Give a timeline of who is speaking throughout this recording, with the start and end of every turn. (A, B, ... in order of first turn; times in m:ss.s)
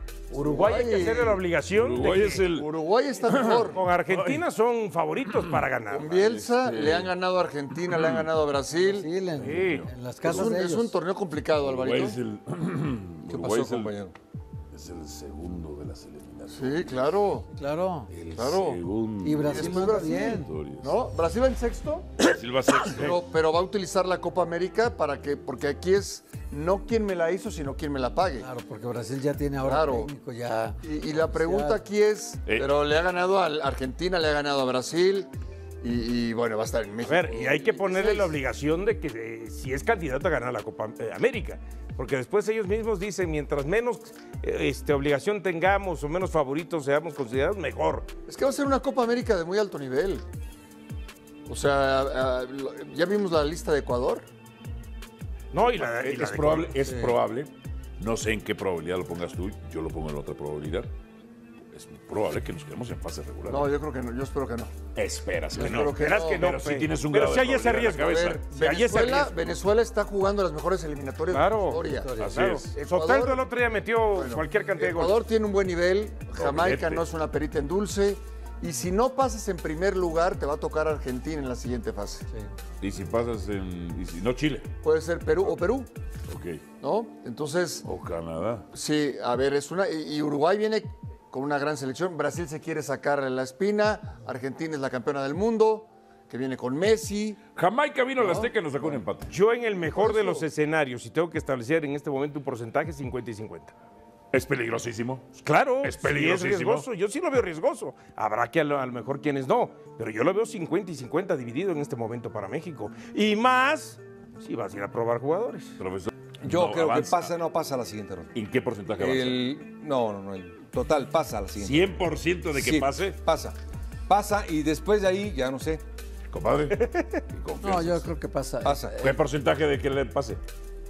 0:00.3-0:02.4 A
0:00.3-0:01.4 B
0:01.7-0:02.7 C
0:02.5-0:03.8 B
0:03.2-0:04.4 C
0:03.7-0:06.1 A
0:05.3-0:07.1 C
0:05.9-0:09.1 B
0:07.9-0:08.3 C
0:08.8-0:11.0 D
0:09.4-0:10.6 C
0:09.4-0:09.9 A
0:10.2-0:12.2 B
0:11.6-0:13.9 C
0:13.3-0:14.1 E
0:14.7-0:16.8 C
0:16.5-0:17.5 B
0:17.5-0:18.1 D
0:18.1-0:21.0 C
0:18.3-0:18.8 B
0:19.2-0:20.5 D
0:19.4-0:22.2 B
0:22.2-0:23.2 C
0:22.9-0:28.5 B
0:28.4-0:31.8 D
0:29.6-0:30.1 B
0:30.8-0:35.3 B
0:35.8-0:38.3 B
0:37.0-0:48.1 A
0:48.3-0:50.2 B
0:51.5-0:54.2 B
0:55.5-0:56.8 A
0:55.8-1:00.9 C
0:56.9-0:57.1 D
1:01.7-1:03.7 C
1:03.4-1:04.7 B
1:04.9-1:08.4 C
1:05.5-1:06.5 B
1:05.6-1:09.3 A
1:08.0-1:13.4 B
1:11.3-1:15.2 A
1:11.7-1:12.4 D
1:12.2-1:12.7 C
1:14.1-1:22.3 B
1:16.4-1:17.0 C
1:22.8-1:24.7 C
1:24.8-1:25.9 B
1:26.3-1:26.6 C
1:26.8-1:27.8 B
1:27.8-1:28.6 C
1:28.7-1:37.4 B
1:37.5-1:39.3 C
1:38.2-1:38.5 D
1:39.3-1:43.7 A
1:40.0-1:40.4 B
1:44.3-1:45.3 C
1:45.4-1:55.8 A
1:45.8-1:46.9 C
1:55.8-1:57.3 C
1:56.4-1:58.3 E
1:58.3-1:59.4 C
1:59.0-2:01.9 E
2:01.6-2:03.1 C
2:02.5-2:03.5 E
2:04.1-2:05.8 E
2:06.3-2:08.1 C
2:07.6-2:09.2 D
2:08.6-2:09.0 E
2:09.0-2:10.4 C